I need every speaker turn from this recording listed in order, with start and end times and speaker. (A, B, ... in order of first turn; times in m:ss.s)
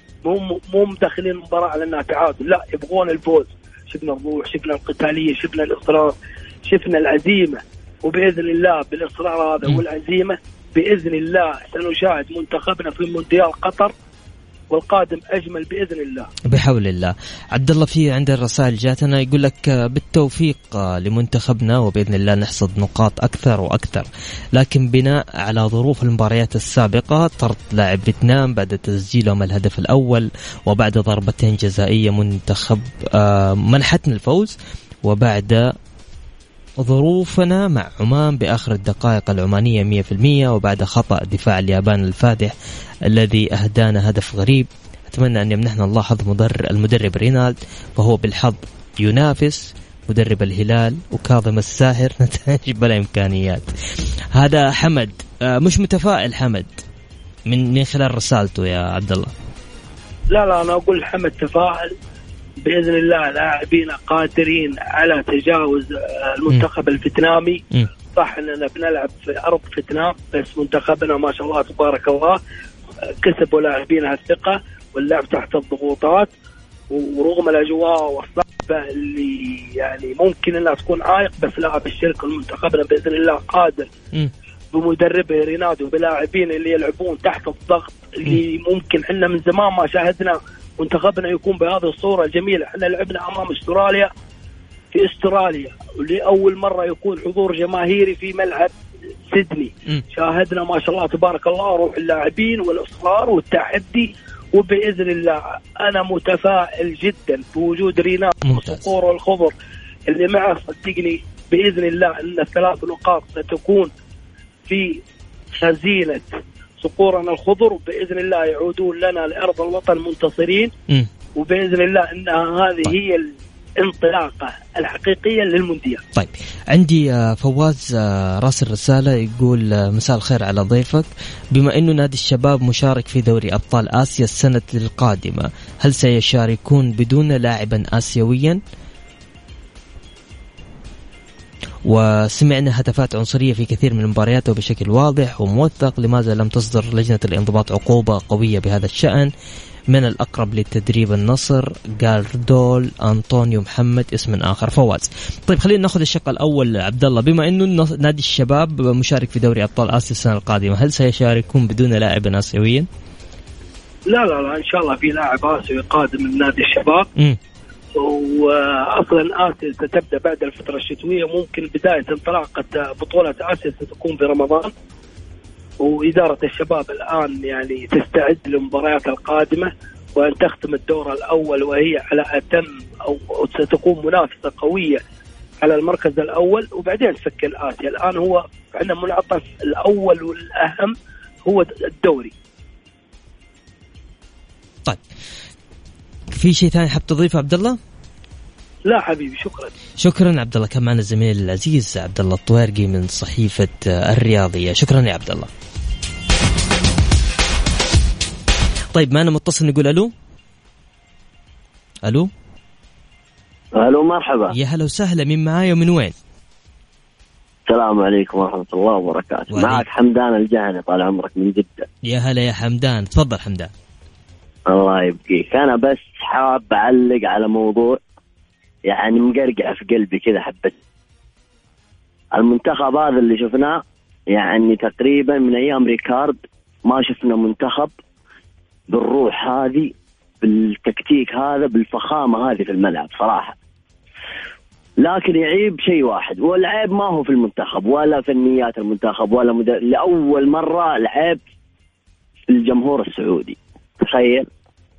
0:00.2-0:13.9 A
0:14.7-0:16.3 A
0:16.5-0:35.7 B
0:36.8-0:42.5 B
0:43.1-0:53.7 B
0:54.3-0:56.7 B
0:57.5-0:59.3 B
1:00.3-1:01.9 A
1:02.6-1:12.4 A
1:13.2-1:16.3 A
1:16.9-1:23.9 A
1:24.7-1:34.1 A
1:34.9-1:38.7 A
1:39.3-1:49.5 A
1:48.5-1:48.9 B
1:50.1-1:53.9 A
1:54.7-1:55.0 A
1:55.6-1:56.3 A
1:56.8-2:00.7 A
2:01.4-2:06.0 A
2:06.2-2:18.6 B
2:21.9-2:29.3 B
2:29.9-2:42.9 B
2:44.1-2:47.1 A
2:48.0-2:54.7 A
2:55.8-3:05.0 A
3:05.6-3:11.0 A
3:11.5-3:12.3 A
3:16.3-3:17.8 B
3:18.9-3:19.7 A
3:20.0-3:25.5 B
3:28.9-3:30.1 B
3:32.0-3:32.3 B
3:33.8-3:34.6 C
3:34.5-3:36.1 B
3:37.7-3:41.9 C
3:39.5-3:39.8 B
3:42.0-3:43.7 B
3:44.7-3:48.0 C
3:48.9-3:50.8 C
3:52.4-3:57.9 C
3:58.9-4:03.6 C
4:05.0-4:11.4 C
4:12.5-4:14.5 C